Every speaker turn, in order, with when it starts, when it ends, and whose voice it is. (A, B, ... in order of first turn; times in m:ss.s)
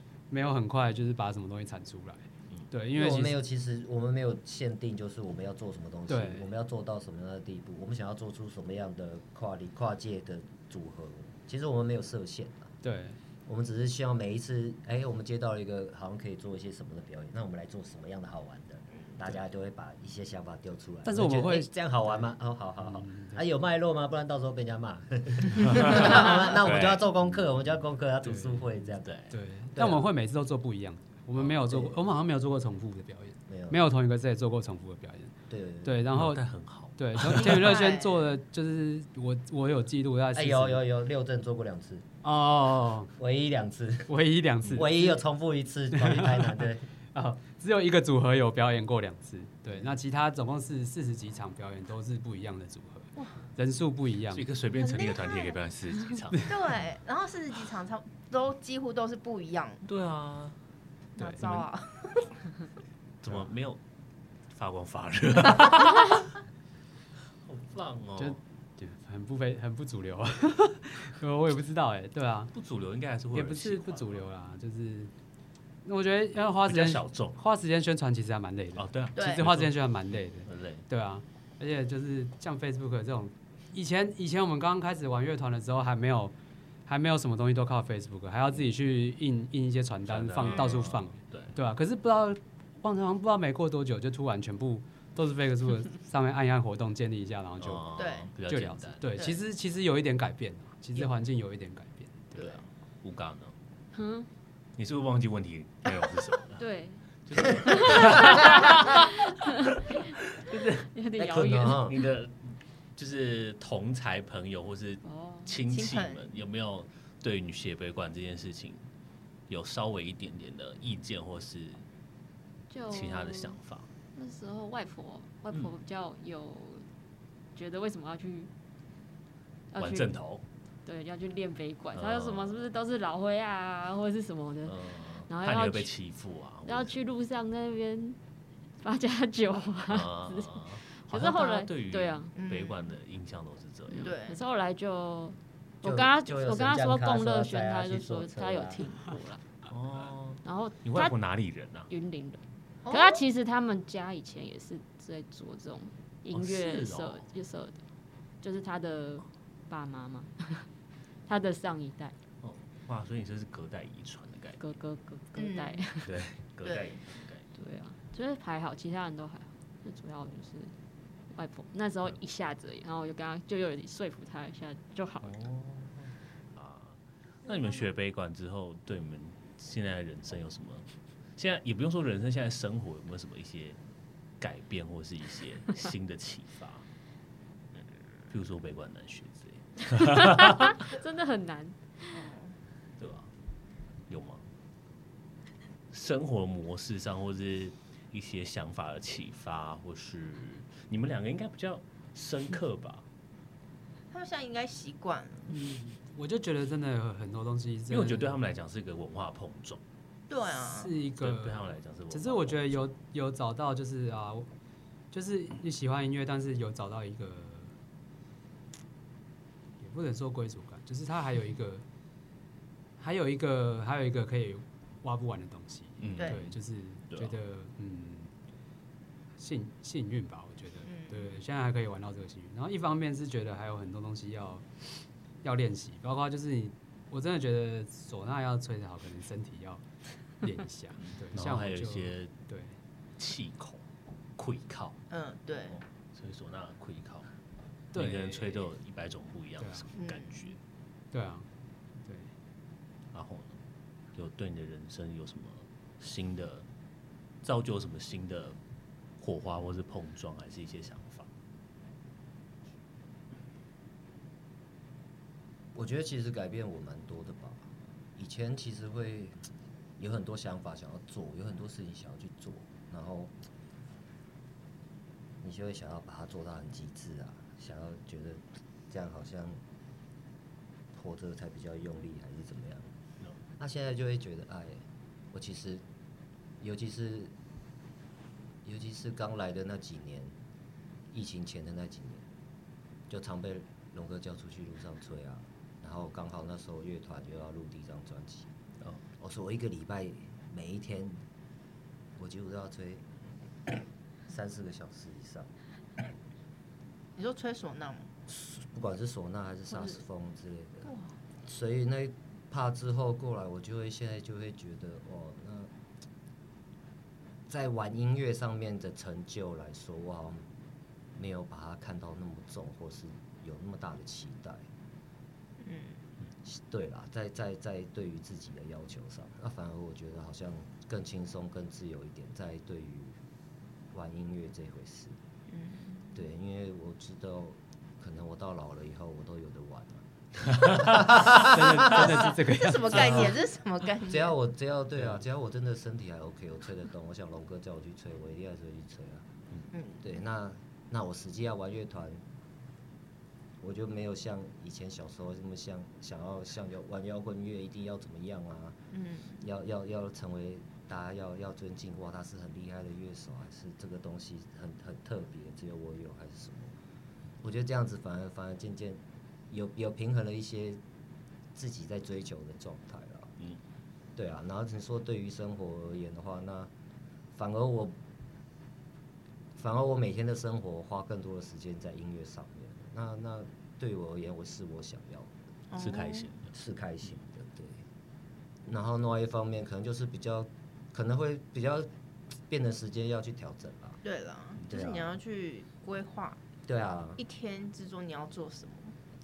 0:00.3-0:03.4 A
0:02.9-0:12.7 B
0:06.1-0:06.5 A
0:12.8-0:13.2 A
0:13.4-0:29.1 B
0:21.0-0:22.2 A
0:22.8-0:23.4 A
0:25.7-0:27.1 C
0:28.2-0:28.7 A
0:29.0-0:29.3 C
0:29.3-0:35.3 A
0:29.7-0:30.1 B
0:31.4-0:32.0 B
0:33.5-0:33.8 B
0:35.5-0:36.0 B
0:35.8-0:36.4 A
0:36.1-0:37.8 C
0:37.0-0:40.8 A
0:37.4-0:38.3 D
0:40.3-0:42.0 B
0:42.2-0:43.1 A
0:43.2-0:44.1 B
0:44.1-0:45.2 A
0:44.7-0:46.9 B
0:45.9-0:54.4 A
0:54.3-0:56.8 C
0:54.8-0:55.6 D
0:56.5-0:59.8 D
0:59.8-1:00.6 C
1:01.2-1:01.6 A
1:01.2-1:02.4 D
1:03.2-1:03.8 C
1:04.5-1:06.3 C
1:07.4-1:08.4 C
1:08.2-1:12.5 A
1:12.5-1:14.2 C
1:13.3-1:15.1 A
1:15.8-1:26.3 A
1:16.6-1:17.4 C
1:18.8-1:20.8 C
1:19.2-1:19.4 D
1:26.9-1:37.9 A
1:30.1-1:31.5 C
1:30.4-1:30.8 D
1:37.6-1:39.2 C
1:38.0-1:38.3 D
1:38.5-1:42.5 A
1:42.4-1:43.5 C
1:43.9-1:44.3 E
1:44.8-1:46.6 C
1:46.6-1:49.3 E
1:47.2-1:49.1 C
1:50.3-1:58.8 C
1:50.9-1:51.9 E
1:51.2-1:51.9 B
1:55.0-1:55.6 E
1:55.7-1:56.3 D
1:59.5-2:01.8 C
2:02.7-2:03.6 E
2:02.9-2:03.9 C
2:04.1-2:06.8 E
2:07.5-2:08.5 E
2:09.7-2:10.2 E
2:09.7-2:10.4 C
2:10.8-2:15.9 E
2:11.9-2:12.7 C
2:14.6-2:17.0 C
2:16.6-2:18.2 E
2:18.8-2:22.3 E
2:19.9-2:24.1 C
2:22.4-2:22.8 D
2:23.9-2:29.4 E
2:24.0-2:24.4 D
2:25.8-2:28.8 B
2:29.7-2:31.9 C
2:30.4-2:31.2 E
2:31.9-2:37.8 E
2:32.8-2:33.2 D
2:36.3-2:37.3 C
2:38.4-2:40.7 E
2:41.3-2:42.1 E
2:42.4-2:44.6 C
2:44.6-2:46.1 E
2:45.4-2:45.8 D
2:46.0-2:47.4 C
2:46.6-2:47.0 D
2:47.5-2:50.7 E
2:51.3-2:55.4 E
2:55.2-3:03.8 C
3:04.4-3:06.8 C
3:08.3-3:10.8 C
3:10.0-3:12.3 E
3:12.1-3:12.5 D
3:13.0-3:13.3 C
3:14.1-3:14.4 C
3:15.9-3:23.0 C
3:24.1-3:25.5 D
3:25.5-3:28.4 A
3:27.9-3:29.8 C
3:30.3-3:30.9 D
3:30.7-3:34.5 A
3:31.2-3:32.9 C
3:35.1-3:37.7 A
3:39.8-3:41.8 A
3:43.0-3:48.3 A
3:46.0-3:46.5 C
3:46.2-3:46.4 D
3:49.4-3:54.8 A
3:50.8-3:51.3 D
3:55.4-3:59.8 A
4:00.4-4:02.7 A
4:01.3-4:02.3 C
4:03.2-4:03.8 C
4:04.4-4:05.0 C
4:05.1-4:05.8 D
4:05.7-4:07.3 C
4:07.9-4:08.6 A
4:07.9-4:10.6 C
4:09.6-4:09.8 A
4:10.0-4:10.4 D
4:11.1-4:11.5 A
4:13.1-4:13.6 C
4:14.1-4:16.6 C
4:17.4-4:18.6 C
4:19.2-4:21.3 C
4:25.7-4:29.4 B
4:30.0-4:33.3 B
4:35.4-4:39.6 B
4:40.9-4:42.9 B
4:43.6-4:45.8 B
4:46.6-4:47.3 B
4:48.6-4:50.3 B
4:51.1-4:52.2 B
4:53.1-4:58.5 B
4:59.2-5:01.2 B
5:02.2-5:03.0 B
5:04.3-5:05.5 B
5:07.2-5:08.1 D
5:08.3-5:10.9 B
5:10.8-5:11.1 D
5:11.4-5:15.7 B
5:17.5-5:20.5 B
5:21.1-5:24.7 B
5:25.6-5:26.0 D
5:26.4-5:33.2 B
5:33.9-5:35.2 B
5:35.5-5:36.1 D
5:36.1-5:42.3 B
5:40.5-5:40.8 C
5:41.3-5:43.3 A
5:42.5-5:44.3 D
5:44.0-5:49.3 B
5:49.7-5:50.1 D
5:50.0-5:52.2 B
5:53.6-5:58.8 B
5:58.9-5:59.4 D
5:59.4-6:06.8 B
6:07.4-6:10.8 B
6:11.5-6:13.3 B
6:14.2-6:16.7 B
6:17.3-6:18.0 B
6:19.5-6:25.3 B
6:25.7-6:26.3 D
6:25.7-6:26.5 C
6:26.5-6:27.8 B
6:28.7-6:31.9 B
6:32.5-6:34.0 B
6:34.0-6:36.4 D
6:34.6-6:35.2 B
6:36.6-6:37.2 B
6:37.2-6:38.9 D